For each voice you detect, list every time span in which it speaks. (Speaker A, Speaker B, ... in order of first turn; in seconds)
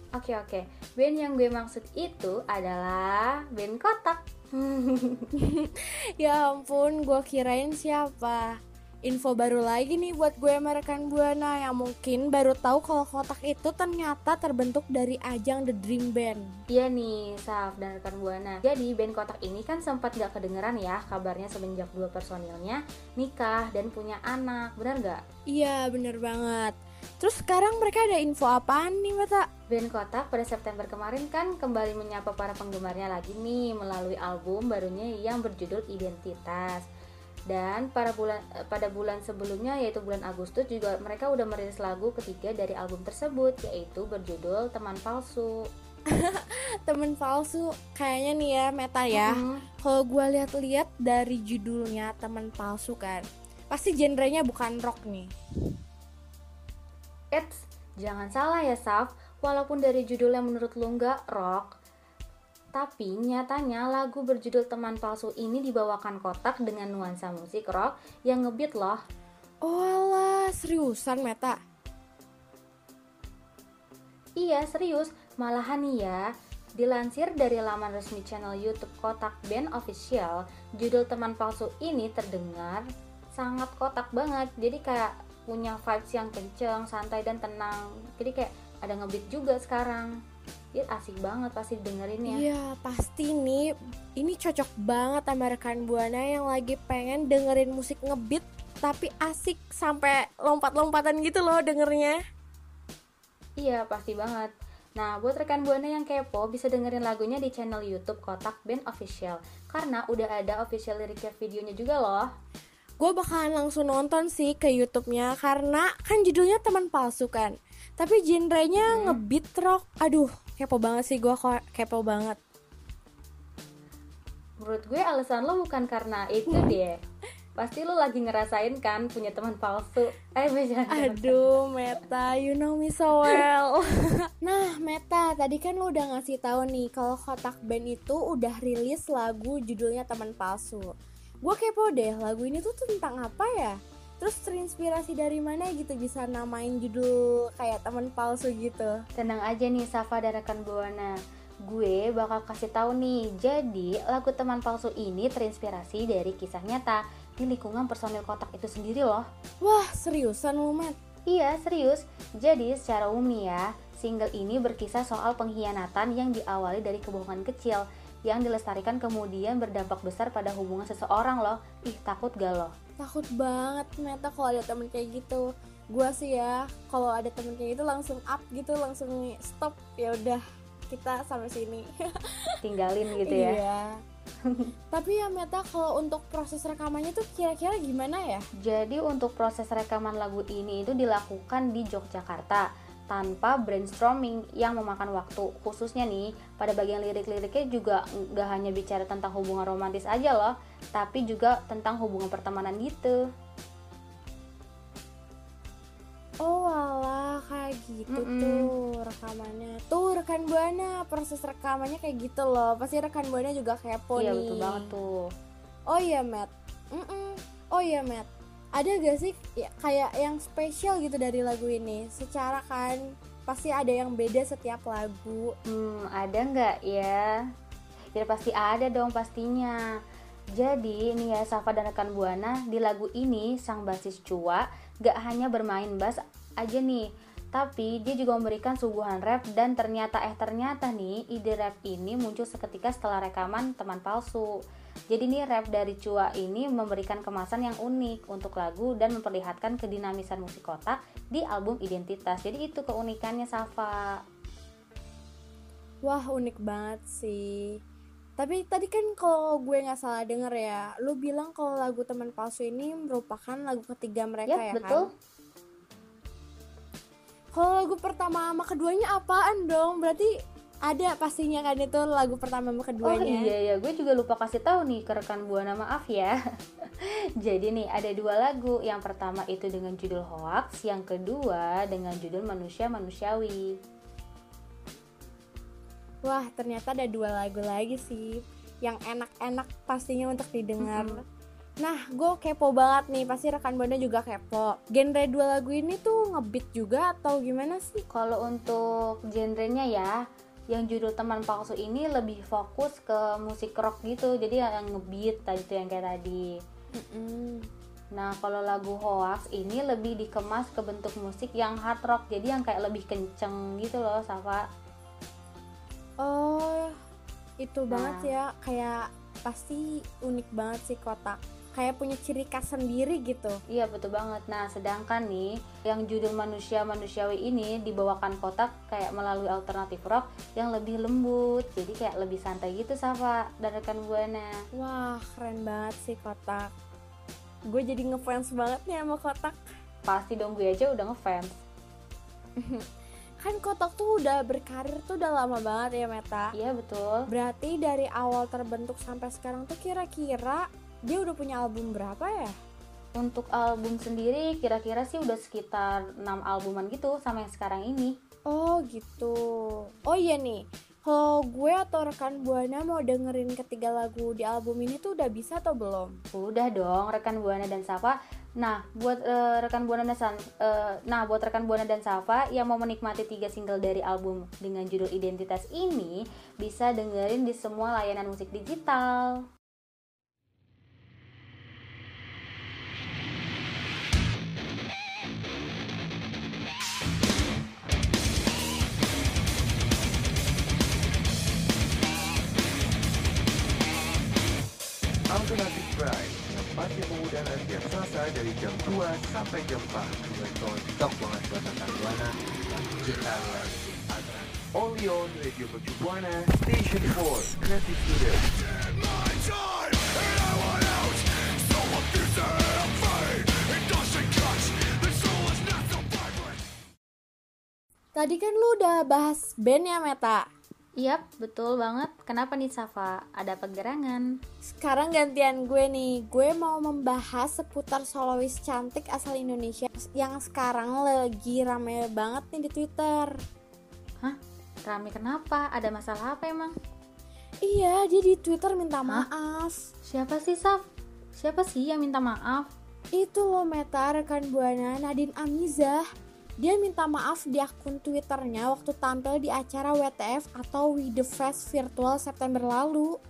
Speaker A: 0.1-5.3, 16.7-25.2, 29.7-36.8, 37.5-45.5, 49.1-49.6, 57.3-61.7, 62.7-69.0, 74.4-76.2, 76.8-82.8, 83.3-90.1, 90.7-92.4, 103.6-112.3, 118.8-119.2, 124.6-127.0, 127.6-131.5, 149.2-151.1, 151.7-159.2, 161.3-172.7, 182.6-183.6, 188.6-203.2, 208.1-208.6, 214.2-215.3, 225.7-227.2, 228.1-229.8, 230.6-244.5, 245.1-253.9, 264.5-265.1, 273.0-276.3, 277.0-283.7, 290.8-291.2, 298.1-300.1, 300.7-306.4, 308.1-314.6, 317.9-318.3, 323.7-334.5, 340.0-341.5, 346.5-347.2, 353.2-358.1, 366.3-379.4, 421.0-424.2, 434.2-436.7, 440.0-440.8, 441.3-442.7
Speaker B: 5.4-16.5, 25.5-29.4, 46.1-55.3, 69.6-71.6, 92.2-102.2, 113.0-122.4, 130.9-149.0, 159.6-160.9, 173.0-182.6, 183.2-183.9, 184.9-188.4, 206.4-214.9, 215.9-225.5, 256.0-257.7, 258.4-265.0, 267.5-270.3, 270.9-273.5, 286.2-291.2, 291.8-298.0, 306.9-307.6, 316.2-316.9, 317.6-323.6, 334.7-336.7, 337.7-339.6, 342.6-342.9, 343.4-346.5, 347.3-352.5, 358.5-366.2, 418.1-420.4, 424.6-433.3, 437.6-439.8, 443.1-446.0, 446.6-453.1
Speaker C: 395.3-408.5